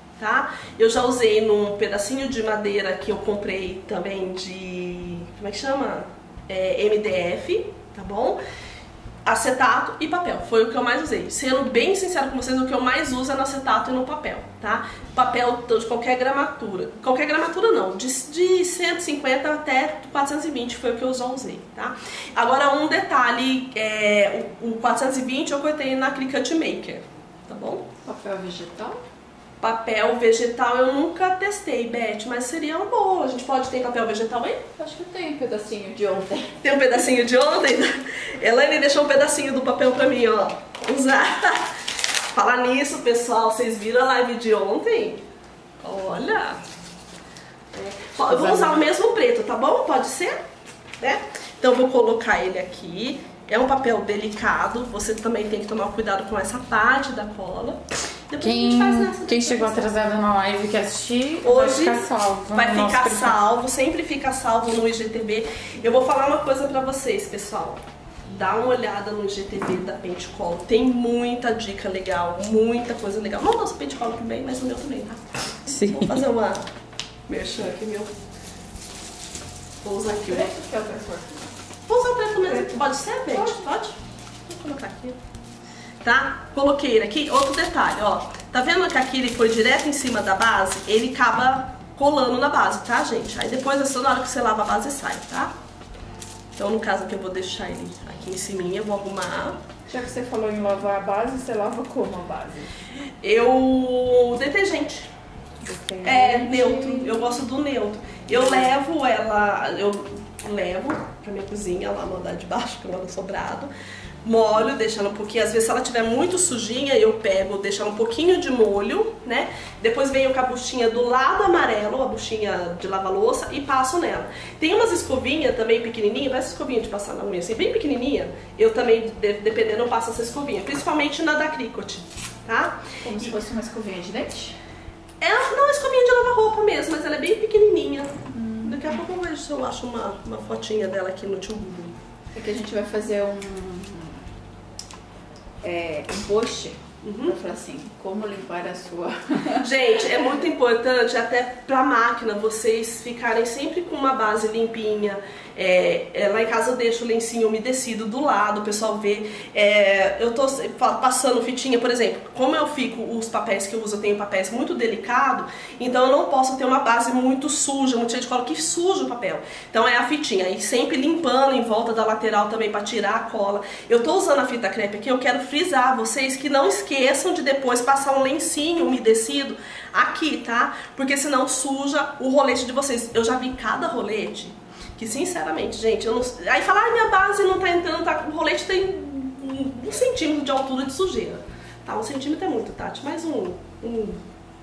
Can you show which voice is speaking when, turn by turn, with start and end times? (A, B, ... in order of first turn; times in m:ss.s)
0:00.2-0:08.4 A
0:09.2-0:27.9 A
0:28.0-0:29.0 B
0:29.6-0:34.6 A
0:34.8-0:36.6 B
0:36.6-0:41.7 A
0:42.3-0:45.2 A
0:45.8-0:46.6 A
0:47.8-0:48.8 C
0:48.1-0:50.4 A
0:51.0-0:59.9 A
0:58.4-1:03.4 C
1:01.4-1:16.7 A
1:15.7-1:16.2 C
1:17.3-1:18.1 A
1:19.8-1:20.5 A
1:20.0-1:21.5 B
1:21.9-1:25.2 A
1:22.4-1:23.6 B
1:26.0-1:35.5 A
1:36.6-1:39.6 A
1:39.9-1:42.7 B
1:43.2-1:45.1 A
1:45.7-1:47.2 B
1:46.0-1:53.7 A
1:54.2-2:13.3 A
2:13.0-2:14.5 B
2:15.2-2:22.0 A
2:18.3-2:18.8 B
2:22.3-2:24.2 B
2:25.6-2:29.7 B
2:27.0-2:27.3 A
2:29.6-3:14.2 A